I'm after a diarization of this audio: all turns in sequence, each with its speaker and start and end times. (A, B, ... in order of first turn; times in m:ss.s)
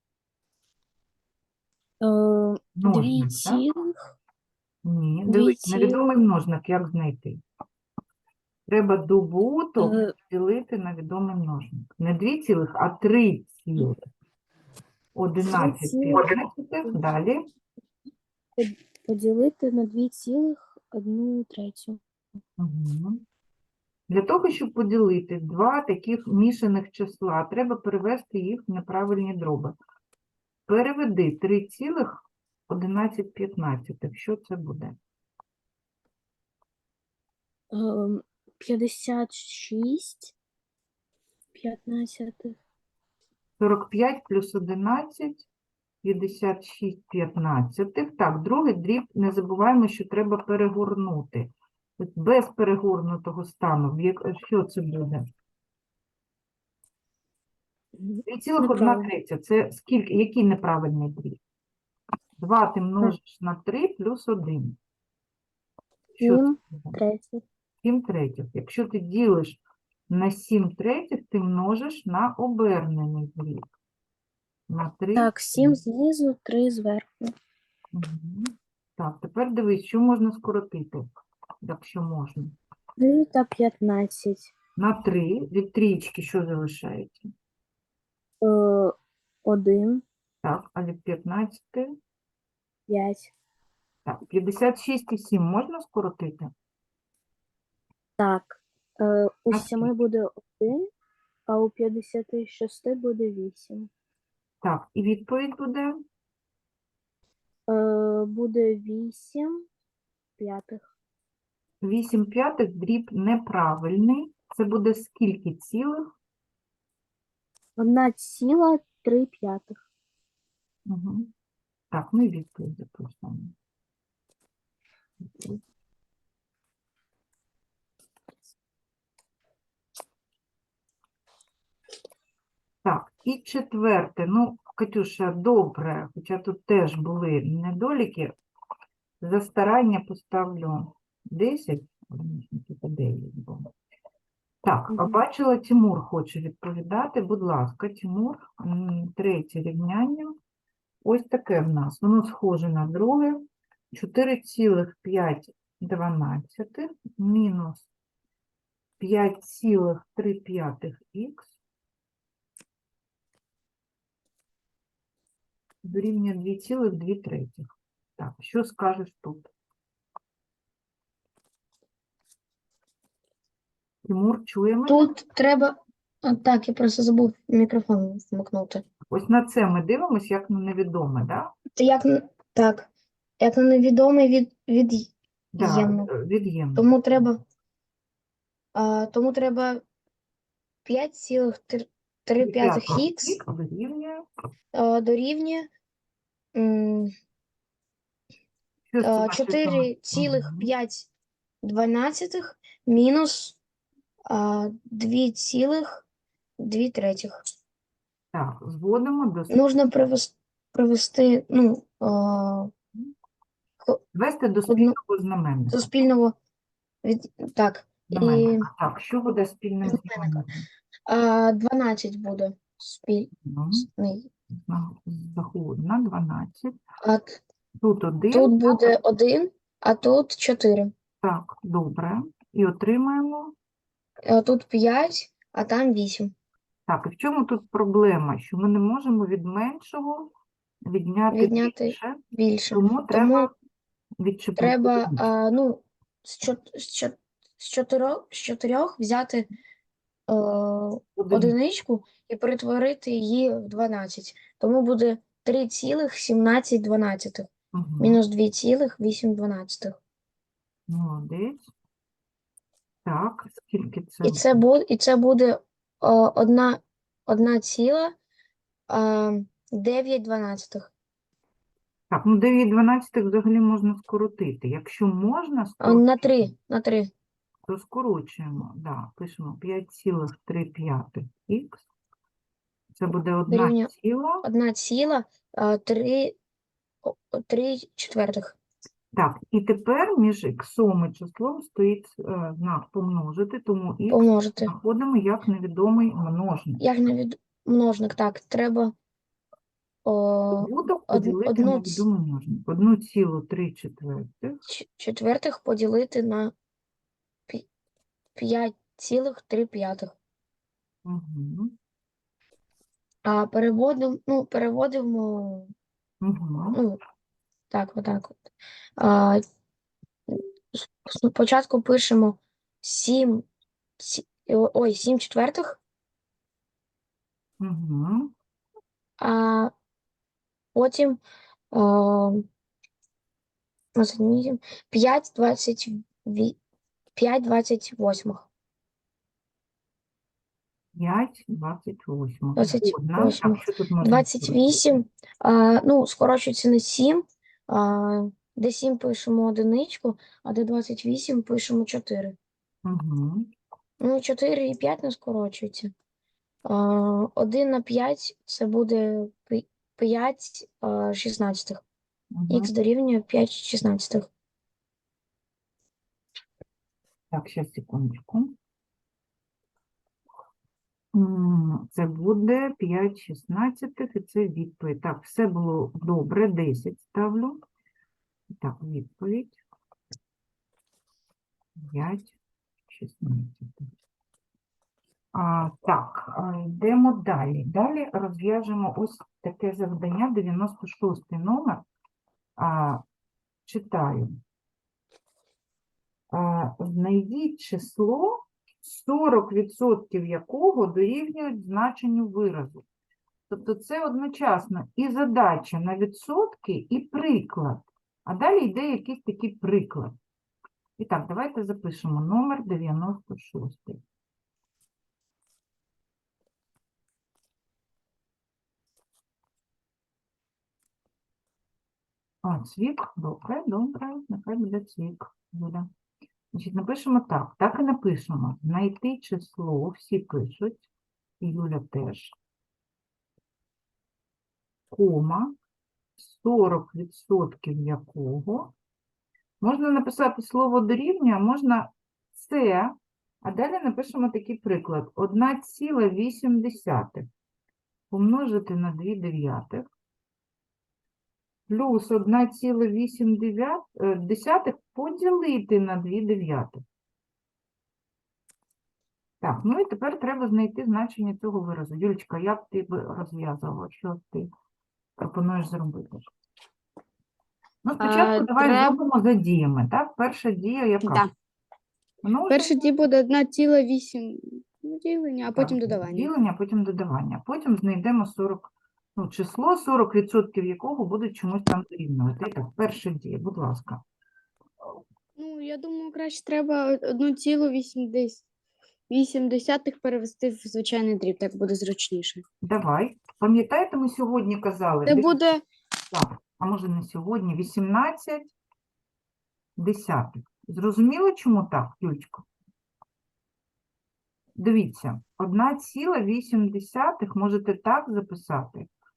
0:02.0-0:04.0 A
0:02.8-0:03.6 B
0:04.8-0:07.4 B
0:05.3-0:06.0 A
0:08.7-0:14.1 B
0:09.8-0:10.1 A
0:15.1-0:17.4 B
0:15.4-0:16.3 A
0:18.6-0:22.0 A
0:22.6-0:23.2 B
0:24.1-0:29.8 B
0:30.7-0:35.0 B
0:37.7-0:40.3 A
0:41.6-0:42.6 A
0:43.6-0:45.5 B
0:46.0-0:55.3 B
0:58.0-0:59.1 A
0:58.2-1:01.4 B
1:02.4-1:04.8 B
1:06.2-1:07.0 B
1:06.2-1:07.4 A
1:07.8-1:13.7 B
1:14.7-1:15.8 B
1:15.1-1:17.4 A
1:17.9-1:21.1 B
1:21.6-1:22.6 B
1:23.0-1:24.5 A
1:24.8-1:27.3 B
1:28.4-1:30.0 A
1:30.4-1:31.9 B
1:32.9-1:33.3 A
1:34.1-1:36.5 B
1:38.2-1:40.9 A
1:39.5-1:39.9 B
1:41.5-1:43.9 A
1:44.6-1:46.0 B
1:47.7-1:49.6 A
1:50.4-1:50.9 A
1:51.8-1:56.1 B
1:57.8-1:59.8 A
2:00.9-2:01.3 B
2:01.9-2:03.5 B
2:05.3-2:05.6 B
2:12.8-2:18.3 B
2:19.2-2:23.7 B
2:24.6-2:30.4 B
2:24.9-2:25.2 A
2:31.0-2:37.9 B
2:39.0-2:41.5 B
2:45.8-2:47.7 B
2:48.2-2:49.5 B
2:54.0-2:55.1 B
2:54.9-2:58.8 C
2:59.1-3:01.5 B
3:01.8-3:02.9 C
3:03.4-3:06.1 C
3:05.5-3:07.3 B
3:06.8-3:07.4 C
3:08.8-3:09.8 C
3:10.8-3:13.4 C
3:12.4-3:14.2 B
3:14.7-3:15.7 C
3:16.5-3:17.1 C
3:18.9-3:20.7 B
3:19.0-3:21.1 C
3:21.6-3:23.6 C
3:24.3-3:26.0 C
3:26.6-3:27.4 C
3:28.3-3:29.6 B
3:29.5-3:32.7 C
3:34.1-3:35.9 B
3:34.7-3:35.0 C
3:35.7-3:36.4 C
3:37.0-3:38.7 C
3:38.1-3:40.6 B
3:39.8-3:40.4 C
3:41.1-3:44.3 C
3:43.4-3:43.9 B
3:44.5-3:46.8 B
3:47.0-3:47.4 C
3:47.8-3:48.9 B
3:48.3-3:50.9 C
3:51.2-3:53.5 B
3:54.2-3:56.3 C
3:56.9-4:00.3 B
4:00.9-4:03.5 B
4:01.3-4:03.5 C
4:04.2-4:05.3 B
4:04.6-4:09.5 C
4:10.3-4:20.0 C
4:11.2-4:11.6 B
4:17.7-4:18.2 B
4:20.9-4:21.7 B
4:23.0-4:24.6 B
4:24.2-4:28.2 C
4:28.9-4:30.9 C
4:32.1-4:36.5 B
4:35.8-4:37.1 C
4:37.7-4:41.8 B
4:43.0-4:44.4 B
4:43.5-4:43.9 C
4:44.4-4:46.4 C
4:47.0-4:48.6 C
4:49.1-4:56.8 B
4:54.1-4:54.7 C
4:56.8-4:58.9 C
5:00.0-5:02.0 C
5:00.5-5:04.6 B
5:04.7-5:06.5 C
5:08.4-5:10.2 C
5:11.0-5:11.7 B
5:13.2-5:15.7 C
5:16.2-5:16.8 B
5:16.7-5:17.0 C
5:17.7-5:18.4 C
5:19.0-5:19.4 C
5:20.3-5:23.5 C
5:24.0-5:25.8 C
5:27.6-5:28.3 B
5:29.2-5:29.7 C
5:30.8-5:31.2 C
5:31.7-5:32.4 C
5:33.9-5:36.6 C
5:37.1-5:38.5 C
5:41.0-5:45.0 B
5:42.6-5:52.4 C
5:52.8-5:53.5 B
5:54.0-5:55.9 C
5:56.6-6:01.8 C
6:02.3-6:02.7 B
6:02.5-6:04.3 C
6:07.3-6:08.6 B
6:11.1-6:17.6 B
6:18.5-6:19.6 B
6:21.8-6:22.4 B
6:22.9-6:23.9 B
6:25.3-6:31.8 B
6:32.6-6:33.0 B
6:33.7-6:34.4 B
6:36.3-6:42.8 B
6:43.5-6:50.2 B
6:51.0-6:54.0 B
7:02.4-7:05.9 B
7:06.5-7:10.9 B
7:11.4-7:12.3 B
7:14.9-7:15.6 B
7:16.2-7:18.7 B
7:19.6-7:27.3 B
7:28.1-7:29.8 B
7:31.7-7:36.8 B
7:39.4-7:44.5 B
7:45.2-7:46.2 B
7:47.8-7:51.3 B
7:48.0-7:49.0 D
7:51.0-7:51.3 D
7:52.2-7:52.7 B
7:52.5-7:56.3 D
7:55.5-8:04.0 B
8:05.4-8:08.4 D
8:09.1-8:12.4 D
8:12.6-8:15.4 B
8:15.1-8:15.6 D
8:16.1-8:18.6 B
8:19.8-8:22.4 B
8:24.6-8:28.9 B